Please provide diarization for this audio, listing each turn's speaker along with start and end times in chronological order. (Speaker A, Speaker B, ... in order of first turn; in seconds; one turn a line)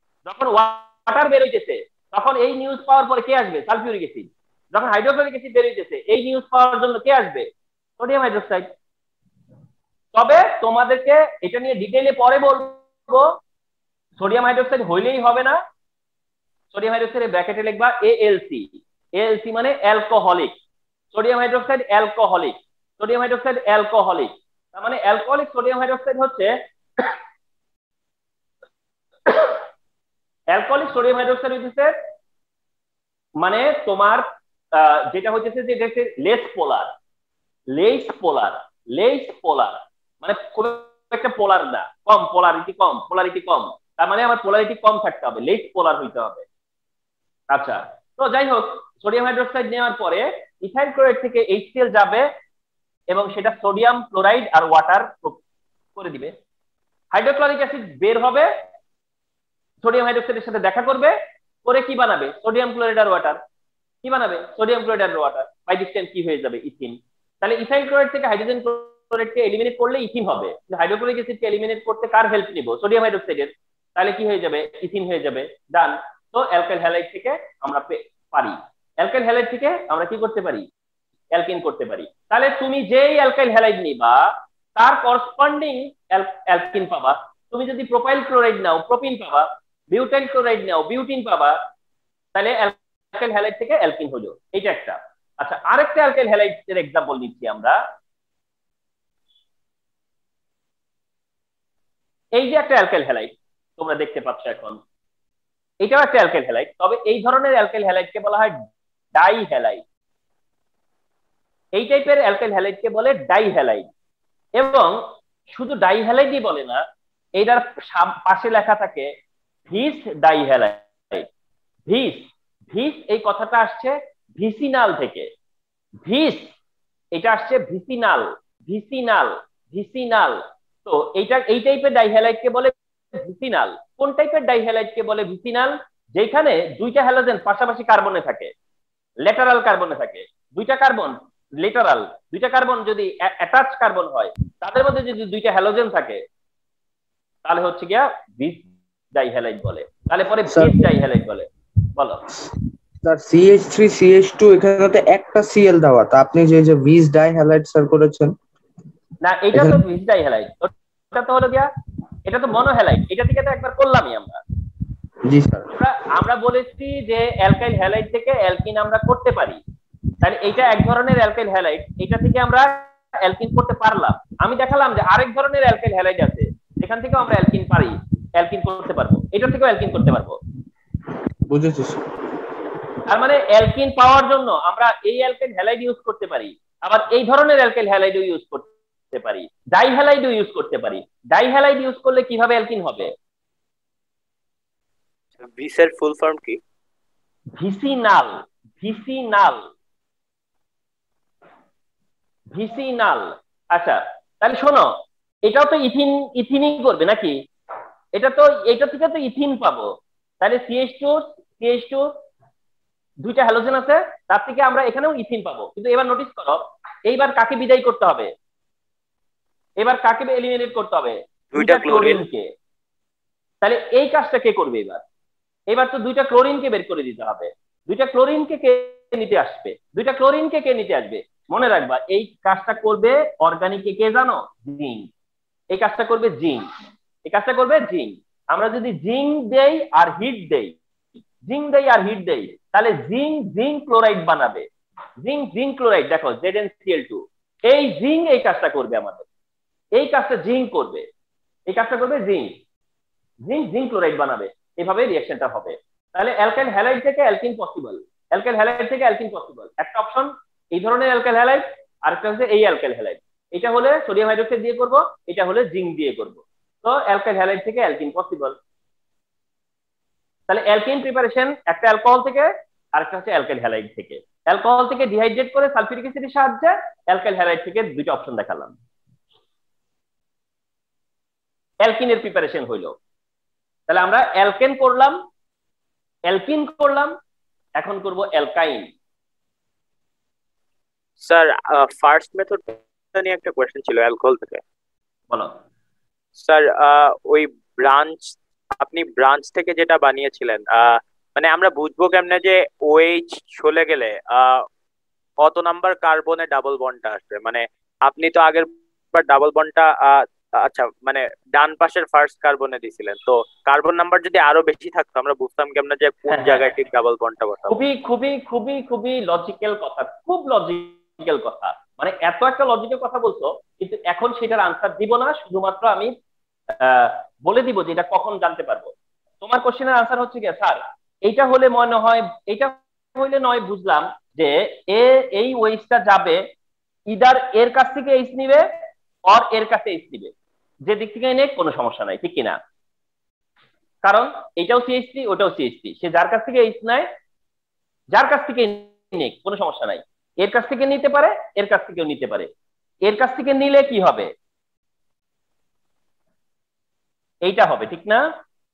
Speaker A: 0.2-7.5
Speaker A: 8.0-8.7
Speaker A: 10.1-13.4
Speaker A: 14.2-15.6
Speaker A: 16.7-20.5
Speaker A: 21.1-27.1
Speaker A: 29.3-29.6
Speaker A: 30.5-31.9
Speaker A: 33.4-36.9
Speaker A: 37.7-46.5
Speaker A: 47.5-52.3
Speaker A: 53.1-55.4
Speaker A: 56.0-56.3
Speaker A: 57.1-58.5
Speaker A: 59.8-63.4
Speaker A: 64.0-80.6
Speaker A: 81.3-91.6
Speaker A: 92.3-97.8
Speaker A: 102.3-104.8
Speaker A: 105.8-108.6
Speaker A: 109.2-109.8
Speaker A: 111.8-113.9
Speaker A: 114.6-115.0
Speaker A: 115.5-116.8
Speaker A: 117.4-119.1
Speaker A: 119.7-121.3
Speaker A: 121.9-125.3
Speaker A: 126.0-126.5
Speaker A: 127.1-138.5
Speaker A: 139.2-146.2
Speaker A: 147.4-152.2
Speaker B: 150.5-150.9
Speaker B: 153.0-158.3
Speaker A: 159.2-161.7
Speaker B: 159.5-159.8
Speaker A: 162.3-164.4
Speaker B: 165.2-165.7
Speaker A: 165.7-169.6
Speaker A: 170.2-180.4
Speaker B: 181.5-182.1
Speaker A: 183.1-193.1
Speaker C: 195.4-196.6
Speaker A: 197.6-199.7
Speaker A: 202.5-204.9
Speaker A: 205.4-207.4
Speaker A: 208.1-209.8
Speaker A: 210.4-212.1
Speaker A: 213.2-218.3
Speaker A: 219.8-222.5
Speaker C: 221.5-222.2
Speaker A: 223.6-225.0
Speaker A: 225.7-235.1
Speaker A: 235.7-236.7
Speaker A: 237.2-240.8
Speaker A: 241.4-244.7
Speaker A: 245.2-249.2
Speaker A: 249.9-251.1
Speaker A: 251.7-252.6
Speaker A: 253.4-268.6
Speaker A: 270.5-278.8
Speaker A: 281.8-282.9
Speaker A: 283.9-285.2
Speaker A: 286.3-287.1
Speaker A: 287.8-288.9
Speaker C: 291.2-294.6
Speaker C: 296.4-304.6
Speaker C: 305.4-317.8
Speaker A: 316.3-316.7
Speaker A: 317.7-326.1
Speaker A: 326.8-336.4
Speaker A: 337.1-338.6
Speaker A: 339.3-340.3
Speaker A: 340.9-342.6
Speaker A: 344.0-347.1
Speaker A: 348.1-352.5
Speaker A: 353.1-354.3
Speaker A: 357.4-358.2